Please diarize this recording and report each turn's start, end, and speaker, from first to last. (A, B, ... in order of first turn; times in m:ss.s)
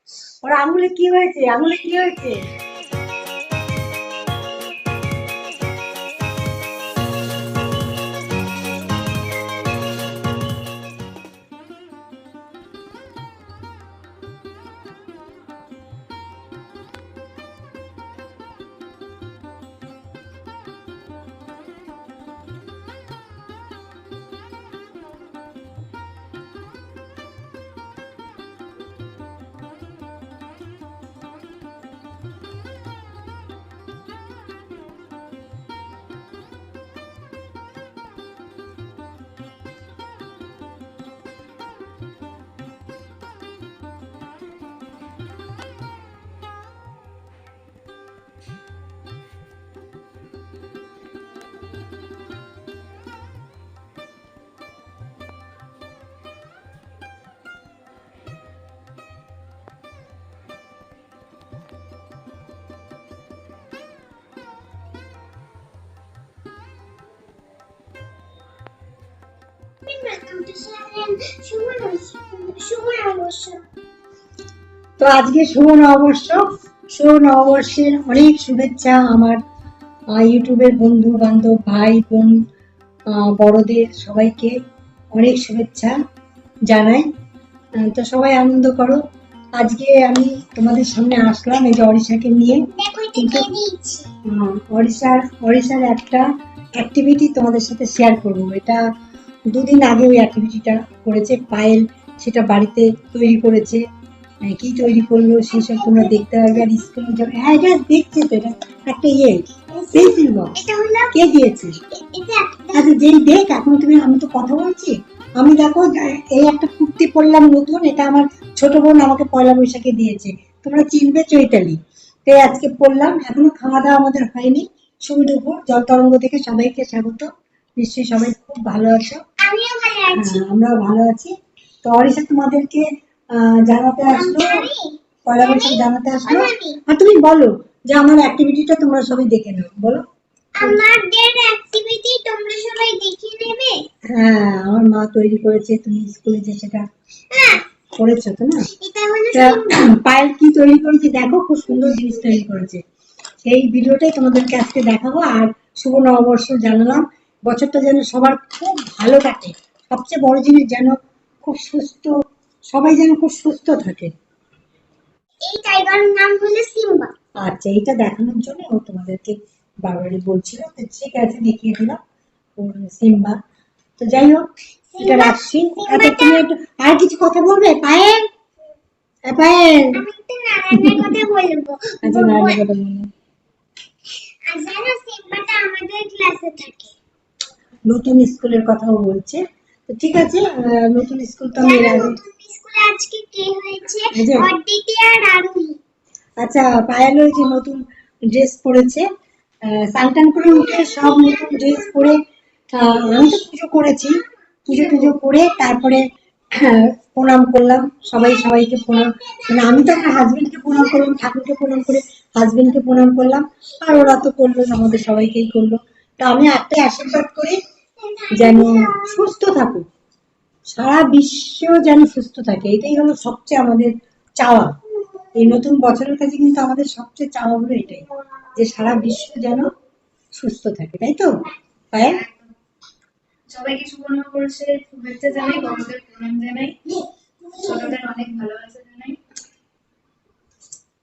0:00.4-0:02.4 A
1:09.8-1:13.6 B
1:15.0-1:19.4 A
1:20.1-1:22.4 A
1:23.1-1:24.6 A
1:25.1-1:25.9 A
1:26.7-1:27.1 A
1:27.8-1:29.0 A
1:29.6-1:33.5 A
1:32.7-1:34.1 B
1:34.3-1:36.2 A
1:36.8-1:38.8 A
1:39.5-1:43.8 A
1:44.4-1:50.6 A
1:45.5-1:46.7 B
1:49.7-1:51.1 B
1:51.1-1:51.8 A
1:51.8-1:52.9 B
1:52.7-2:07.3 A
2:07.8-2:09.2 A
2:09.4-2:10.4 B
2:10.1-2:11.3 A
2:11.8-2:14.7 A
2:14.1-2:16.8 B
2:15.3-2:20.0 A
2:20.6-2:23.8 B
2:24.1-2:26.8 A
2:27.3-2:27.6 B
2:28.0-2:28.7 A
2:28.8-2:29.9 B
2:29.3-2:32.8 A
2:33.4-2:42.1 A
2:42.7-2:44.1 A
2:45.4-2:47.1 B
2:47.4-2:52.0 A
2:52.6-2:53.4 A
2:54.0-2:54.5 A
2:54.9-2:56.4 B
2:55.0-2:58.2 A
2:59.3-3:00.0 A
2:59.9-3:02.6 B
3:00.7-3:01.2 A
3:02.0-3:03.1 A
3:04.5-3:06.9 B
3:07.9-3:12.2 A
3:11.6-3:15.8 B
3:14.1-3:14.5 A
3:16.4-3:17.8 A
3:18.3-3:19.0 A
3:19.8-3:22.2 A
3:20.8-3:21.8 B
3:22.7-3:24.1 A
3:24.7-3:26.0 A
3:26.6-3:37.6 A
3:28.7-3:30.9 B
3:38.0-3:39.2 B
3:38.3-3:39.8 A
3:40.7-3:44.7 A
3:45.4-3:49.7 A
3:50.3-3:51.3 A
3:51.9-3:52.2 A
3:52.0-3:52.5 C
3:53.5-3:56.8 C
3:57.6-3:59.2 C